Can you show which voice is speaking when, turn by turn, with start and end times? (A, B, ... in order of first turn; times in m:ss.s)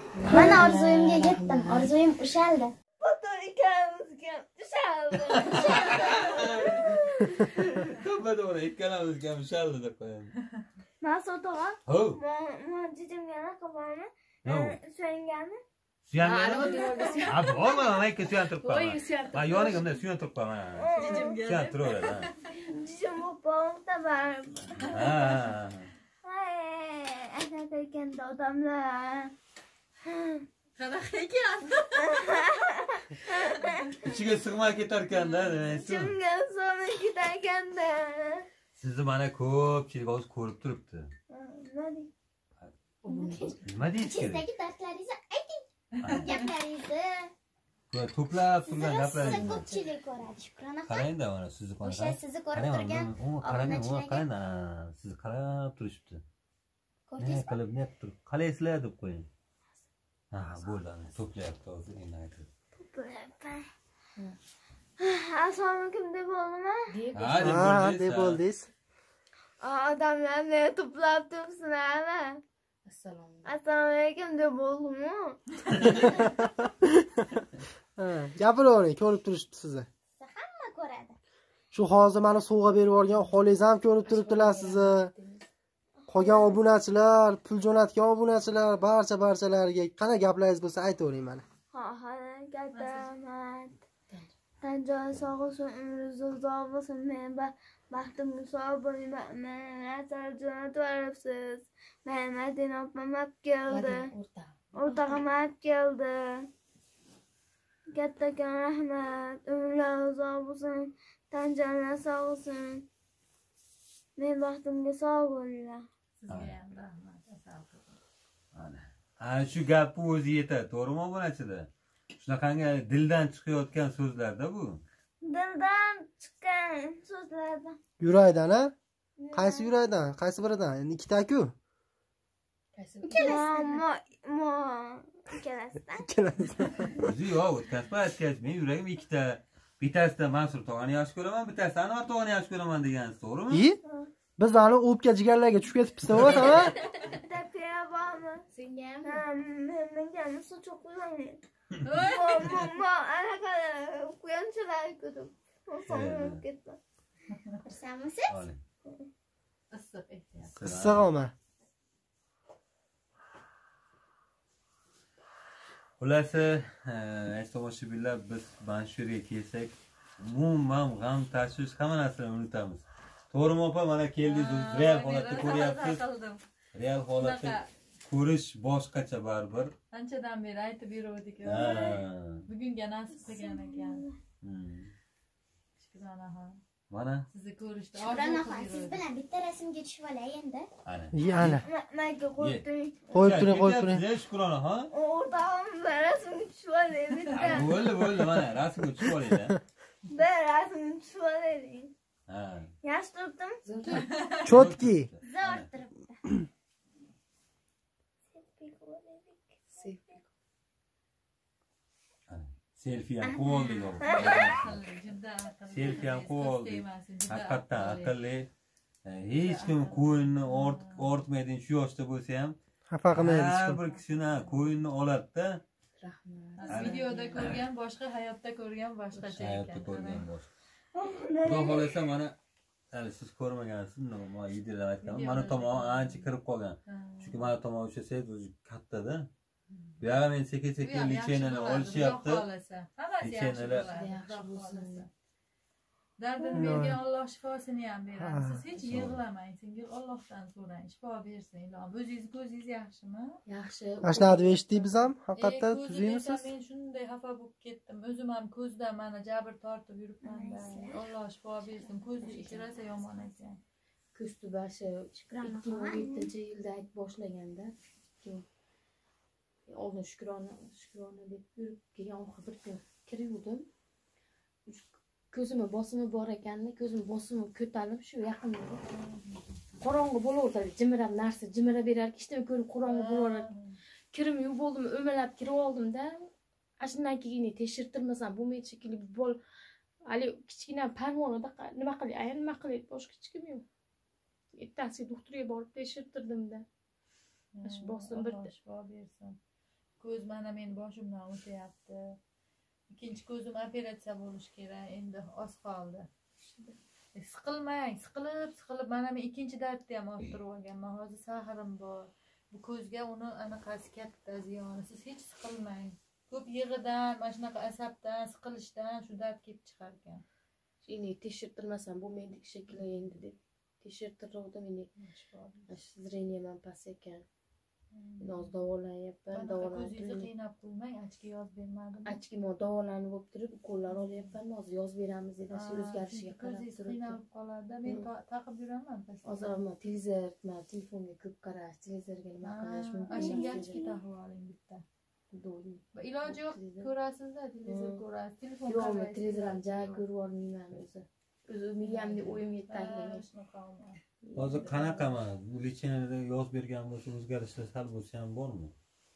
0:00.1-0:01.9 A
0:00.3-0:02.7 B
0:03.0-0:07.9 C
0:05.2-0:10.3 D
0:11.0-0:15.6 C
0:11.9-0:12.2 D
0:14.4-0:14.8 D
0:16.1-0:22.3 D
0:16.2-0:17.3 A
0:16.8-0:17.4 C
0:18.6-0:20.0 A
0:20.8-0:21.4 C
0:21.0-0:22.3 E
0:22.6-0:25.3 C
0:24.8-0:25.9 D
0:26.2-0:29.3 C
0:30.0-0:30.4 C
0:30.8-0:32.4 E
0:32.0-0:34.0 C
0:34.0-0:36.2 D
0:35.1-0:38.5 C
0:38.8-0:41.1 D
0:41.3-0:42.1 C
0:43.0-0:43.6 A
0:43.1-0:43.5 B
0:43.6-0:44.4 D
0:44.0-0:47.3 B
0:46.0-0:46.3 D
0:47.9-0:49.7 D
0:48.6-0:51.1 B
0:49.2-0:49.9 A
0:50.9-0:56.2 D
0:51.8-0:54.2 B
0:57.1-0:57.5 B
0:57.2-0:59.3 D
1:00.3-1:02.5 D
1:02.8-1:03.7 C
1:05.0-1:06.9 C
1:06.9-1:07.7 A
1:07.1-1:08.4 D
1:07.4-1:08.7 F
1:09.6-1:12.4 C
1:12.8-1:13.5 A
1:13.4-1:15.4 C
1:15.7-1:16.1 D
1:16.0-1:17.3 F
1:18.0-1:19.9 F
1:20.2-1:21.2 B
1:21.7-1:25.1 F
1:24.0-1:25.4 A
1:26.1-1:26.6 C
1:26.1-1:31.4 F
1:31.7-1:33.7 C
1:32.7-1:33.1 E
1:34.6-1:44.1 C
1:43.7-1:45.2 A
1:44.7-1:46.5 C
1:47.9-1:52.8 C
1:54.2-1:55.8 C
1:56.2-1:58.0 E
1:56.3-1:56.6 D
1:58.5-2:01.7 D
2:02.2-2:04.8 D
2:05.2-2:07.8 C
2:08.0-2:08.7 F
2:09.2-2:09.7 C
2:09.3-2:11.5 F
2:12.8-2:13.8 A
2:13.1-2:16.1 C
2:13.1-2:13.5 B
2:16.0-2:17.1 F
2:17.0-2:23.6 D
2:23.5-2:23.8 F
2:24.4-2:26.7 F
2:26.2-2:26.5 D
2:27.0-2:28.4 C
2:28.5-2:29.2 A
2:29.0-2:31.4 C
2:31.8-2:32.6 E
2:32.0-2:36.8 C
2:35.9-2:36.4 D
2:37.6-2:38.4 B
2:38.3-2:38.6 D
2:39.7-2:40.5 E
2:40.6-2:41.0 D
2:40.6-2:41.3 F
2:46.0-2:56.0 D
2:54.2-2:56.4 E
2:56.7-2:59.7 D
2:57.1-2:57.7 E
2:59.9-3:04.0 E
3:01.4-3:02.4 D
3:03.3-3:03.6 B
3:04.4-3:04.9 D
3:05.8-3:06.6 E
3:06.9-3:07.3 D
3:07.3-3:09.0 E
3:08.0-3:10.7 B
3:10.8-3:11.6 D
3:11.1-3:11.6 F
3:11.6-3:13.3 C
3:13.1-3:14.0 F
3:13.1-3:14.9 D
3:14.9-3:17.7 C
3:17.3-3:19.6 D
3:20.1-3:21.9 C
3:22.3-3:22.7 D
3:22.8-3:23.6 C
3:23.6-3:24.1 A
3:23.9-3:24.5 E
3:24.4-3:25.1 F
3:24.5-3:25.7 D
3:25.2-3:26.2 B
3:28.3-3:29.8 C
3:29.8-3:30.2 A
3:32.3-3:34.8 D
3:33.2-3:33.9 B
3:34.0-3:34.5 C
3:34.1-3:38.2 E
3:35.7-3:38.5 D
3:39.0-3:42.6 D
3:39.4-3:41.1 E
3:42.9-3:43.8 F
3:43.1-3:45.6 D
3:43.9-3:44.7 E
3:46.0-3:47.5 A
3:46.6-3:50.2 E
3:46.7-3:47.6 D
3:49.4-3:50.5 D
3:50.9-3:51.9 C
3:51.4-3:52.3 D
3:52.9-3:59.3 D
3:55.0-3:56.2 E
3:56.9-3:57.5 E
4:00.0-4:02.4 D
4:00.8-4:05.1 E
4:03.2-4:03.9 D
4:03.8-4:05.0 A
4:06.2-4:13.4 E
4:06.4-4:06.8 A
4:06.5-4:07.0 F
4:08.2-4:08.6 F
4:08.7-4:09.2 D
4:13.4-4:15.1 A
4:14.0-4:16.5 F
4:15.3-4:23.6 E
4:20.2-4:21.0 B
4:22.2-4:22.8 A
4:24.1-4:28.4 A
4:25.3-4:26.3 B
4:29.7-4:33.7 A
4:34.7-4:38.8 A
4:38.9-4:39.6 E
4:39.8-4:43.5 A
4:42.8-4:43.8 E
4:44.1-4:46.3 A
4:46.8-4:49.4 A
4:50.1-4:53.6 A
4:54.6-4:56.6 A
4:57.5-4:59.4 E
4:57.6-4:58.5 A
5:00.0-5:02.2 E
5:02.9-5:06.1 E
5:07.2-5:20.2 E
5:20.8-5:24.9 A
5:22.7-5:23.1 E
5:25.0-5:25.7 E
5:25.7-5:27.2 A
5:27.9-5:28.5 E
5:28.2-5:30.3 A
5:29.3-5:32.2 E
5:32.0-5:37.2 A
5:33.9-5:34.3 E
5:35.5-5:39.6 E
5:39.2-5:43.8 A
5:42.4-5:44.8 E
5:43.2-5:43.7 B
5:45.3-5:46.9 A
5:45.9-5:50.0 E
5:47.6-5:48.0 A
5:48.7-5:53.2 A
5:51.8-5:54.0 E
5:54.2-5:54.7 A
5:54.4-5:58.7 D
5:54.5-5:55.2 E